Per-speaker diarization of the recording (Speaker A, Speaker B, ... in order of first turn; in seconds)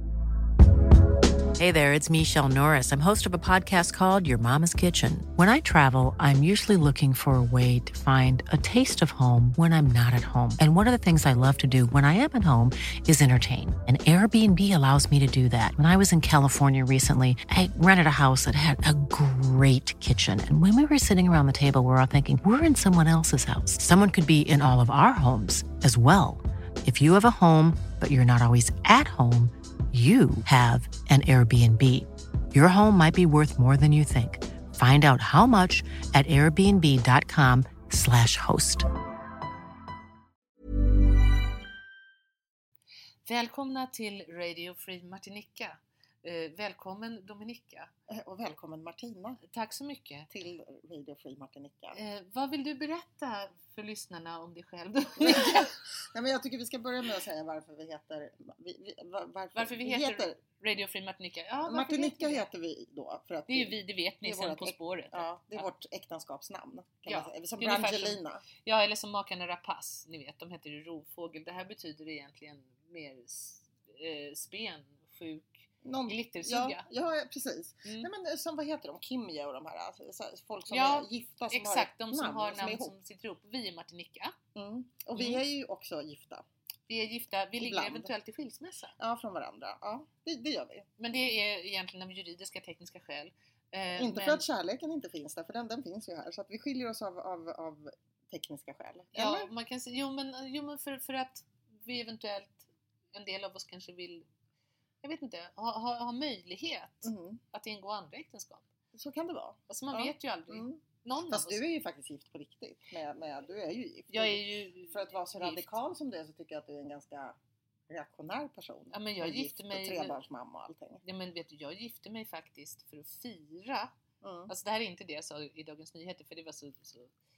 Speaker A: 1.6-38.9
Speaker B: 43.2-47.9, 49.4-50.3, 51.9-55.8, 59.5-62.5, 63.5-65.7, 67.1-76.8, 80.7-84.4, 85.1-85.4, 86.9-88.9, 91.0-94.4, 99.1-104.2, 105.0-108.6, 109.7-111.6, 114.1-115.7, 118.9-120.2, 121.0-123.9, 124.5-127.1
Speaker C: 48.1-49.4, 50.3-52.0, 55.2-60.4, 61.6-68.4, 75.8-82.9, 84.5-86.4, 87.6-88.1, 89.0-90.9, 94.0-99.5, 107.0-107.4, 108.9-117.4, 117.9-121.0, 124.2-124.5